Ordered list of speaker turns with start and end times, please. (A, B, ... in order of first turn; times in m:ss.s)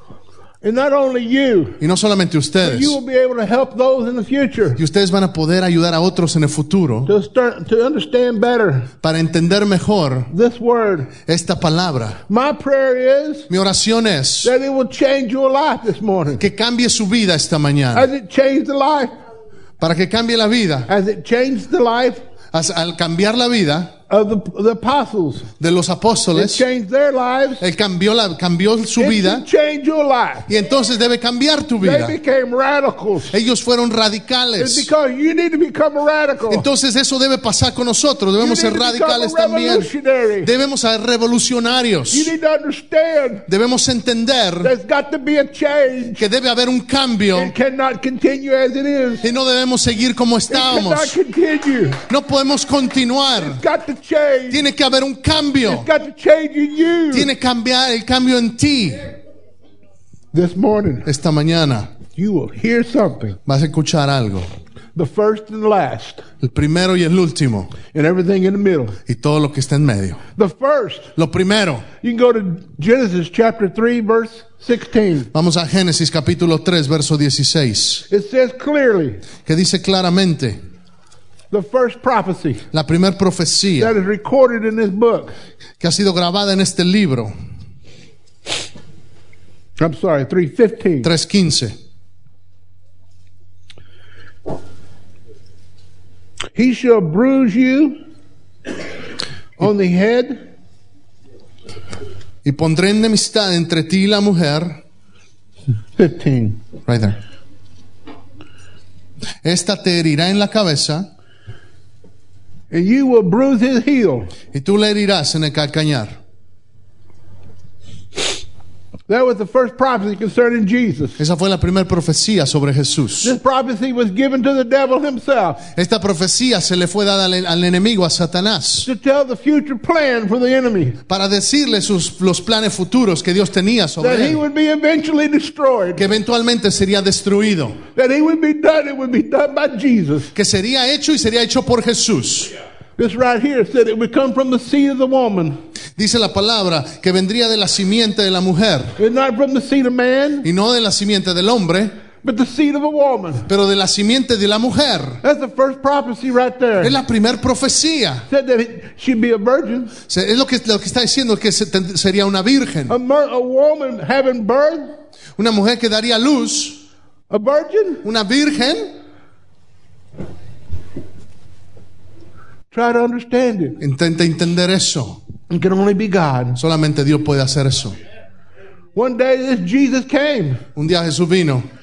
0:00.6-0:01.8 A
0:01.8-0:03.0 B
0:02.6-0:04.8 A
0:04.8-0:07.1 B
0:07.0-0:08.9 A
0:09.0-0:10.3 B
0:10.3-0:11.1 A
0:11.2-0:12.2 B
0:12.3-0:13.5 A
0:13.5-0:14.5 B
0:14.4-0:16.4 A
0:16.4-0:18.1 B
0:17.9-0:19.1 A
0:19.8-0:20.9 B
0:20.9-0:22.2 A
0:22.5-0:23.9 B
0:24.1-0:25.5 A
0:25.6-0:26.6 B
0:26.3-0:27.6 A
0:27.6-0:29.4 B
0:29.0-0:30.5 A
0:30.5-0:32.2 B
0:31.8-0:33.4 A
0:33.3-0:34.9 B
0:34.6-0:36.7 A
0:36.5-0:42.3 B
0:38.4-0:40.5 A
0:42.1-0:43.4 A
0:43.5-0:44.7 B
0:44.6-0:46.3 A
0:46.2-0:47.5 B
0:47.3-0:49.2 A
0:49.2-0:51.2 B
0:50.5-0:52.0 A
0:52.1-0:53.6 B
0:53.4-0:54.6 A
0:54.5-0:55.9 B
0:55.6-0:57.3 A
0:57.1-0:59.1 B
1:00.3-1:01.1 A
1:01.0-1:01.9 B
1:02.1-1:03.4 A
1:03.4-1:04.5 B
1:04.9-1:06.2 A
1:06.4-1:07.7 B
1:07.9-1:09.0 A
1:09.1-1:10.2 B
1:10.3-1:11.1 A
1:11.2-1:11.8 B
1:12.0-1:15.3 A
1:15.3-1:18.0 B
1:18.1-1:19.2 A
1:19.4-1:20.6 B
1:21.5-1:22.6 A
1:22.7-1:23.9 B
1:23.8-1:25.3 A
1:25.8-1:27.3 B
1:29.8-1:31.1 A
1:31.0-1:31.7 B
1:36.5-1:38.0 A
1:39.6-1:40.4 A
1:42.4-1:44.8 B
1:46.0-1:46.6 A
1:46.9-1:47.2 B
1:49.4-1:51.1 B
1:52.7-1:54.3 A
1:54.5-1:56.2 B
1:59.1-2:01.2 A
2:01.2-2:03.4 B
2:03.2-2:05.6 A
2:05.8-2:08.9 B
2:08.8-2:11.0 A
2:11.1-2:14.4 B
2:14.0-2:16.0 A
2:15.9-2:17.8 B
2:17.9-2:20.3 A
2:20.3-2:22.5 B
2:23.0-2:25.6 A
2:26.0-2:28.9 B
2:29.0-2:30.5 A
2:30.4-2:31.9 B
2:32.2-2:33.5 A
2:33.5-2:35.2 B
2:35.2-2:37.0 A
2:36.8-2:38.2 B
2:38.3-2:39.9 A
2:40.1-2:42.9 B
2:42.9-2:44.9 A
2:45.4-2:46.8 B
2:47.3-2:48.0 A
2:48.0-2:48.9 B
2:52.7-2:53.8 A
2:53.8-2:55.2 B
2:55.5-2:56.6 A
2:56.6-2:58.0 B
2:58.9-3:00.6 A
3:00.7-3:01.6 B